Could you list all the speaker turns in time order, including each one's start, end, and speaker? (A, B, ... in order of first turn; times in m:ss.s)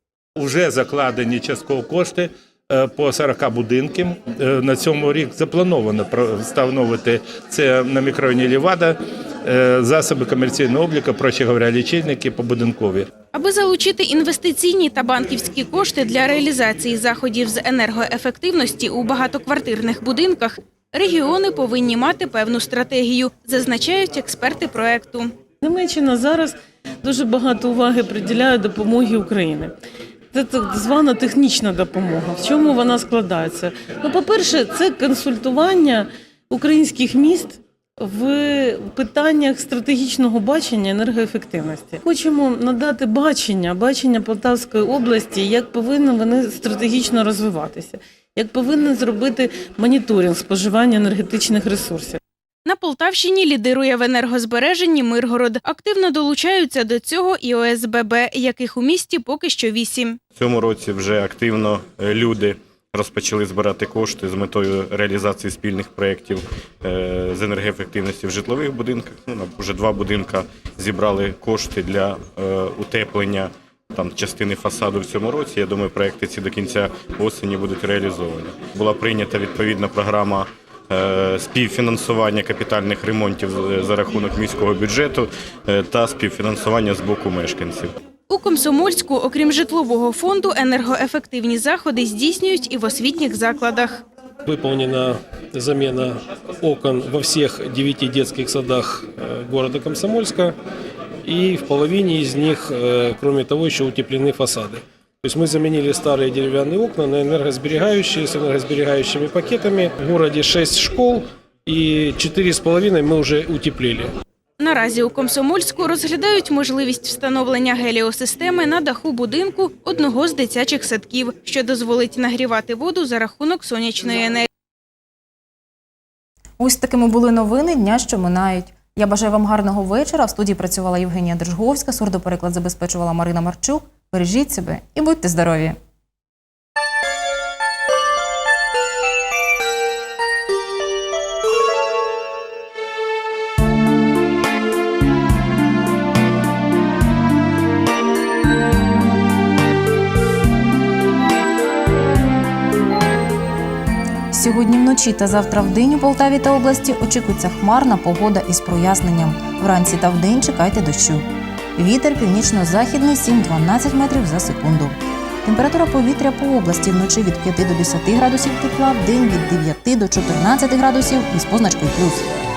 0:00.4-0:13.1 A
0:13.3-0:25.3 B
0:25.6-0:29.7 C
0:30.3-0:52.2 C
0:52.7-1:00.2 B
1:00.3-1:27.9 D
1:28.3-1:34.0 B
1:34.4-1:40.5 E
1:41.2-1:54.1 E
1:54.6-2:04.4 B
2:06.6-2:15.8 F
2:34.3-2:52.2 F